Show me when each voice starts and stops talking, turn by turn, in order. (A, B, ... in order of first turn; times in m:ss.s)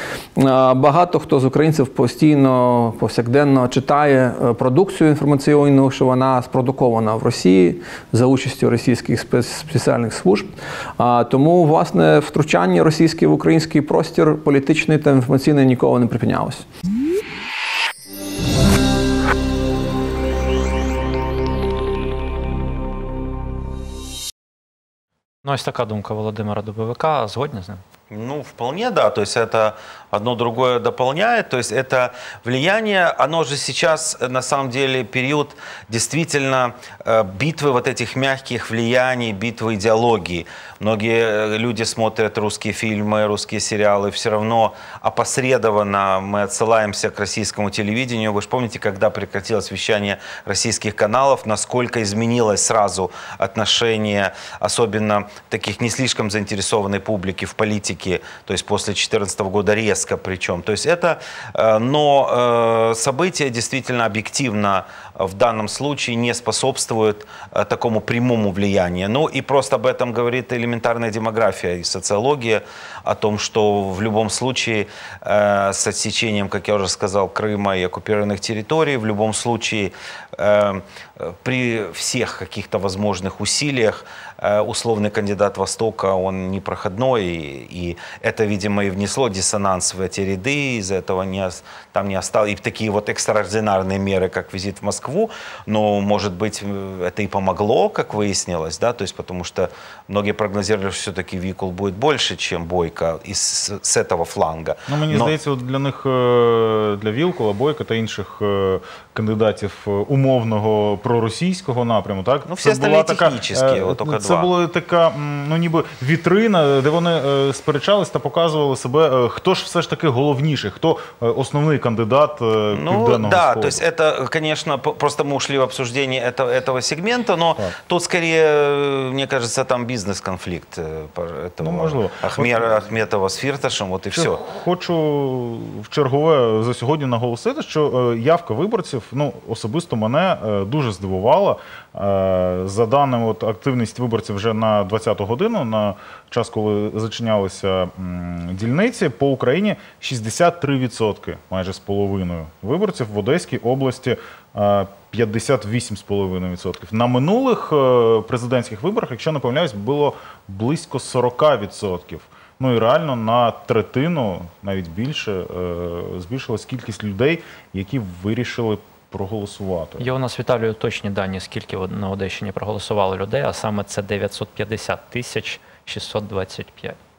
0:00.4-0:16.7 A
0:25.4-0:27.8 B
0:28.1-1:45.4 C
1:44.9-2:03.8 D
1:52.5-1:54.5 C
2:02.7-2:14.4 C
2:11.6-2:12.9 D
2:14.1-2:50.1 D
2:50.0-2:57.0 B